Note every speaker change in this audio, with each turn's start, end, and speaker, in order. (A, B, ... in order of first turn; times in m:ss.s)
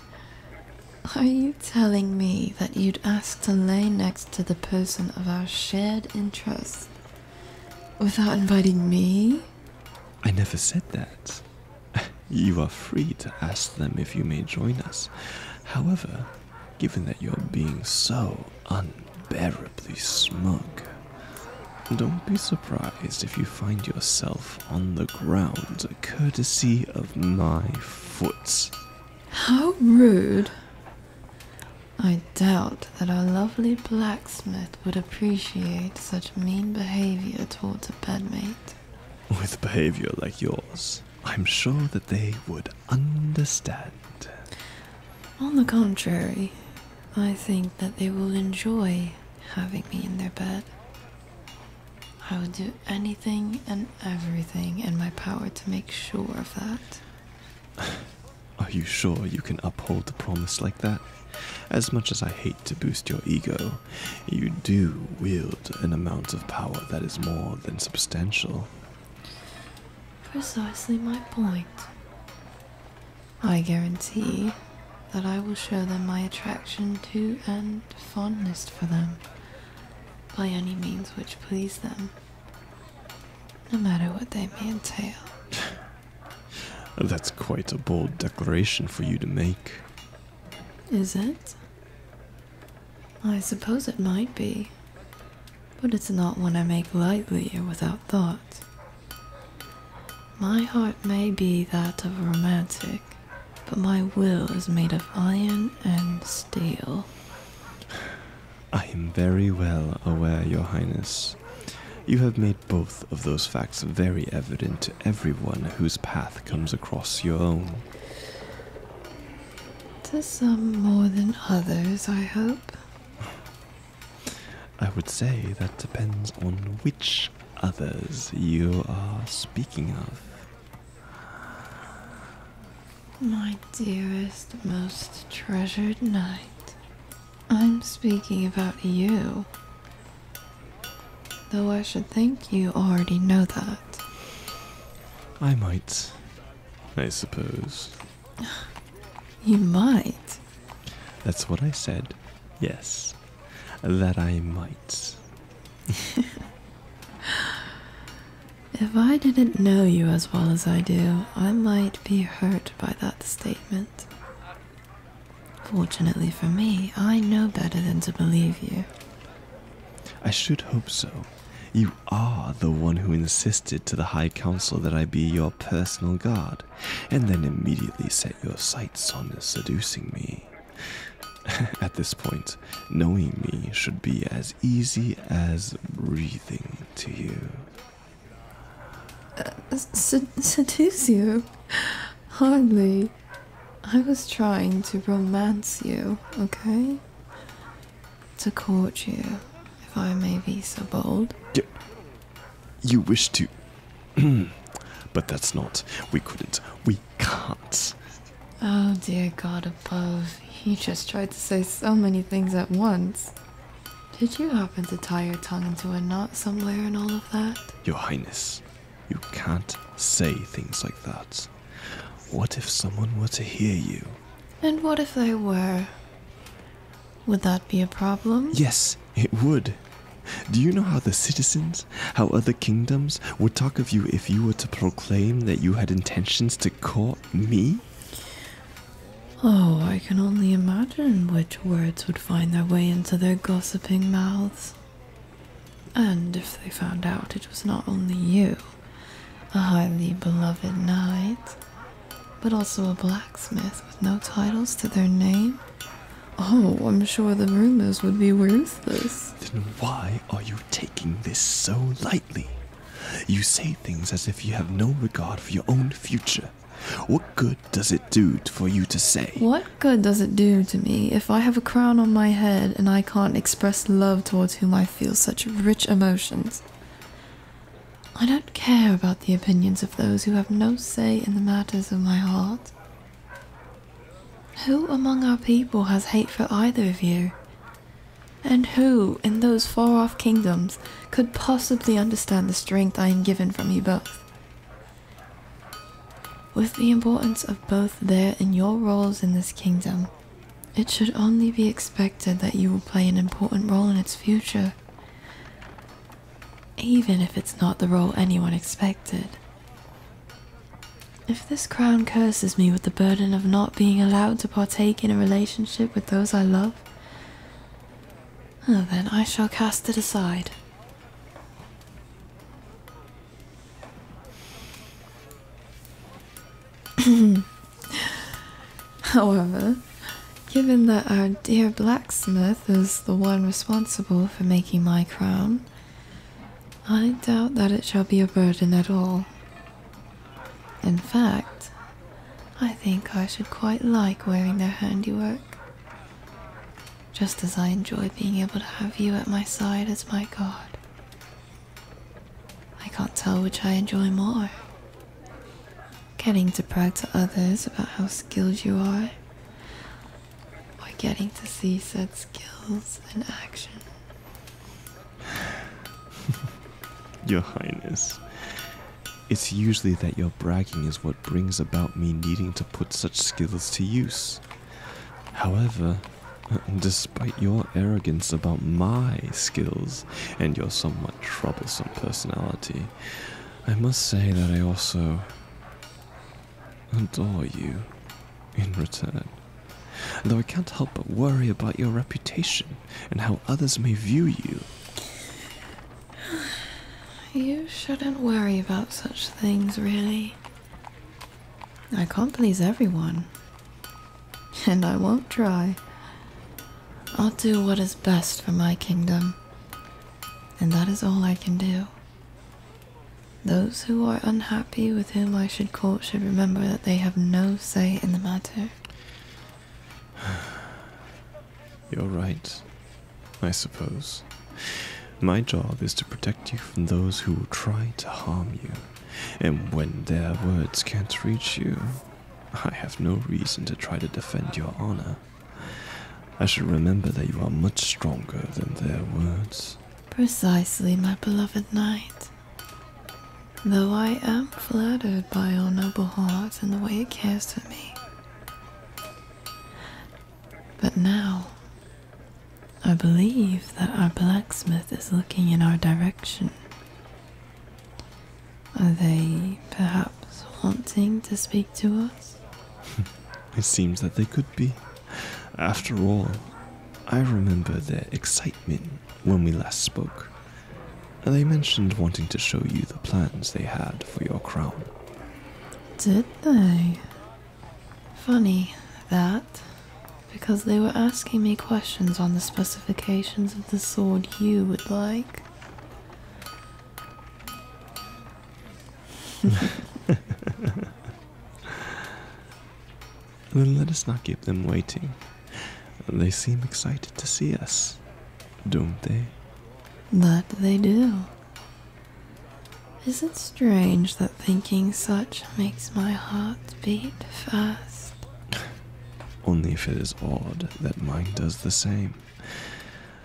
0:01.0-0:06.9 A
0:08.0-0:09.5 A
0:10.2-0:21.0 B
0:21.9-0:28.7 B
0:29.3-0:30.6 A
0:32.0-0:38.8 A
0:39.3-0:44.3 B
0:45.4-0:46.6 A
0:47.1-0:50.7 A
0:52.2-0:57.0 A
0:58.6-1:08.7 B
1:10.2-1:11.9 A
1:13.4-1:14.6 A
1:15.1-1:19.2 A
1:20.3-1:22.1 A
1:23.7-1:25.3 A
1:27.0-1:29.9 B
1:30.9-1:31.6 A
1:33.2-1:34.7 A
1:35.8-1:38.6 A
1:40.4-1:47.1 A
1:48.7-1:57.9 B
2:00.0-2:02.8 A
2:04.8-2:10.5 B
2:13.2-2:16.8 A
2:17.5-2:19.5 A
2:21.5-2:24.0 A
2:25.4-2:26.3 B
2:27.0-2:28.0 B
2:29.4-2:30.4 A
2:31.2-2:33.2 B
2:33.8-2:35.2 B
2:38.7-2:44.1 A
2:45.6-2:48.9 A
2:50.2-3:07.7 B
3:09.4-3:13.2 A
3:13.8-3:17.0 A
3:18.4-3:21.4 A
3:22.8-3:23.5 B
3:24.2-3:28.0 B
3:28.6-3:33.3 A
3:34.1-3:37.7 A
3:37.8-3:44.2 B
3:44.6-3:45.9 A
3:47.3-3:48.6 A
3:48.5-3:49.8 B
3:50.4-3:57.9 B
3:59.4-4:04.8 A
4:06.0-4:08.8 A
4:09.5-4:11.6 A
4:12.4-4:15.6 A
4:16.4-4:19.4 A
4:19.4-4:29.5 B
4:29.4-4:36.6 A
4:38.2-4:42.7 A
4:44.6-4:47.4 A
4:48.4-4:54.2 A
4:56.5-5:00.1 A
5:00.8-5:04.8 A
5:06.8-5:09.4 A
5:11.3-5:16.9 A
5:18.6-5:20.6 A
5:27.0-5:28.2 A
5:29.1-5:29.9 A
5:30.5-5:35.7 A
5:36.8-5:39.3 A
5:40.8-5:41.7 A
5:42.6-5:45.6 A
5:47.1-5:50.8 A
5:52.8-5:54.6 A
5:56.2-5:59.2 A
6:00.8-6:03.9 A
6:07.2-6:08.7 B
6:09.3-6:14.5 B
6:15.3-6:25.4 B
6:26.9-6:27.9 B
6:28.6-6:34.7 B
6:37.3-6:40.4 A
6:41.9-6:43.3 A
6:44.6-6:45.8 A
6:47.1-6:49.4 A
6:50.6-6:51.9 A
6:53.4-6:58.8 A
7:01.9-7:02.7 B
7:03.4-7:19.8 B
7:20.1-7:22.3 A
7:23.6-7:28.0 A
7:30.8-7:31.6 A
7:32.8-7:36.6 A
7:38.8-7:42.4 A
7:43.5-7:46.5 B
7:47.1-7:50.3 B
7:51.2-7:54.9 B
7:56.0-7:57.1 A
7:58.1-7:59.7 A
8:00.3-8:05.4 A
8:13.5-8:18.0 B
8:18.7-8:19.4 B
8:20.1-8:21.3 A
8:23.0-8:28.2 A
8:29.4-8:32.8 B